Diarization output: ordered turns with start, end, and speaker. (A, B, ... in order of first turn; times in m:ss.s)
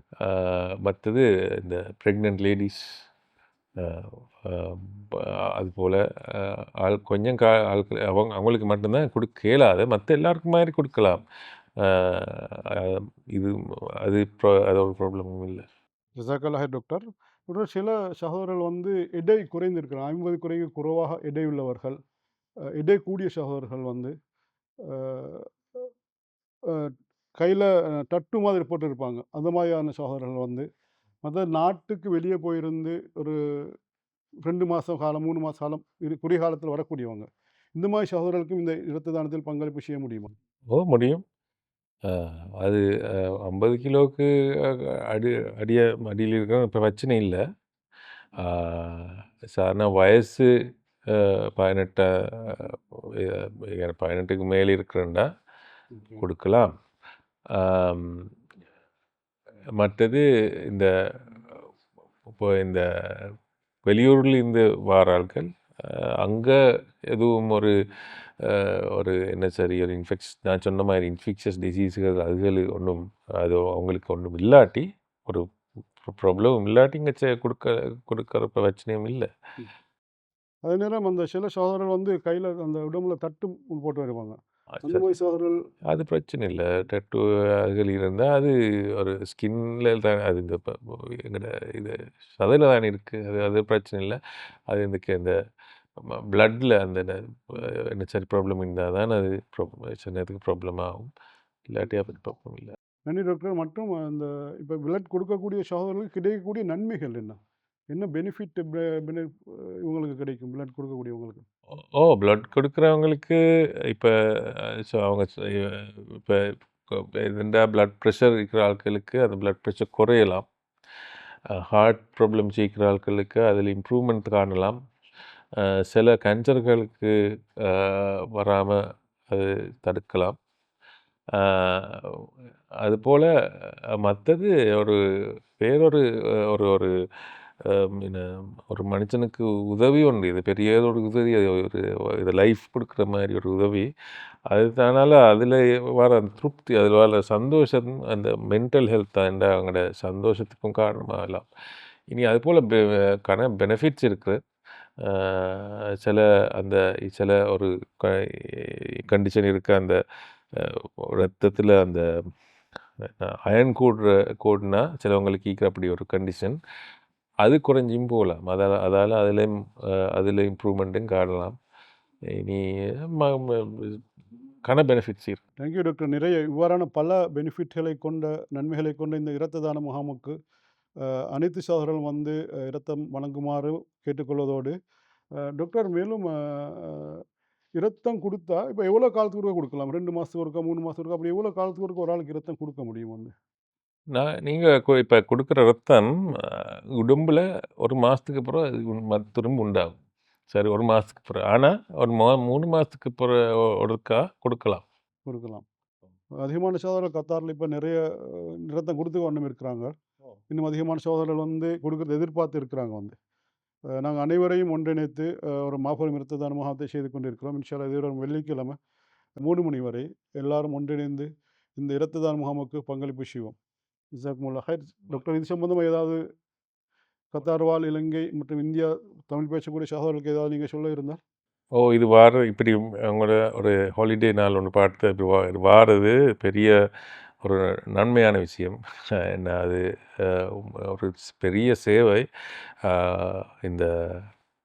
0:00.2-0:02.8 A
0:03.8-0:11.2 A
0:11.8-0:15.6 A
0:16.2-0:22.0 B
0:22.8-0:24.1 B
0:24.9-0:25.8 B
0:26.7-0:30.6 B
0:31.2-0:33.4 B
0:34.4-0:40.3 B
0:40.7-0:41.2 A
0:42.1-0:47.4 A
0:48.4-0:50.5 A
0:51.1-0:55.2 A
0:55.9-0:56.2 B
0:56.2-0:56.7 A
0:57.5-0:58.3 A
0:59.8-1:01.6 A
1:02.3-1:03.3 A
1:03.8-1:06.6 A
1:07.1-1:07.7 A
1:08.4-1:15.4 A
1:16.0-1:19.3 A
1:20.6-1:25.6 B
1:24.8-1:25.0 A
1:25.9-1:34.2 A
1:34.7-1:35.3 A
1:36.1-1:41.0 A
1:41.7-1:42.8 A
1:43.1-1:47.4 B
1:47.9-1:51.4 B
1:51.9-1:53.4 A
1:53.9-2:00.5 A
2:01.5-2:04.8 A
2:05.5-2:08.8 A
2:09.3-2:10.4 A
2:11.3-2:12.3 A
2:12.8-2:15.0 A
2:15.6-2:16.9 A
2:17.6-2:23.9 A
2:24.5-2:31.4 A
2:32.1-2:34.4 A
2:35.0-2:40.0 A
2:40.5-2:42.0 A
2:43.0-2:46.6 A
2:47.4-2:51.6 A
2:52.3-2:54.0 A
2:54.6-2:55.4 A
2:55.6-3:00.3 B
3:01.0-3:04.7 B
3:05.5-3:07.2 B
3:07.8-3:13.3 B
3:14.1-3:20.0 A
3:20.5-3:24.8 A
3:25.3-3:25.6 B
3:26.4-3:29.9 B
3:30.5-3:33.1 B
3:34.0-3:38.8 B
3:39.4-3:43.6 B
3:44.2-3:46.2 B
3:47.3-3:51.2 B
3:51.8-3:56.7 A
3:57.4-4:02.2 A
4:02.8-4:04.3 A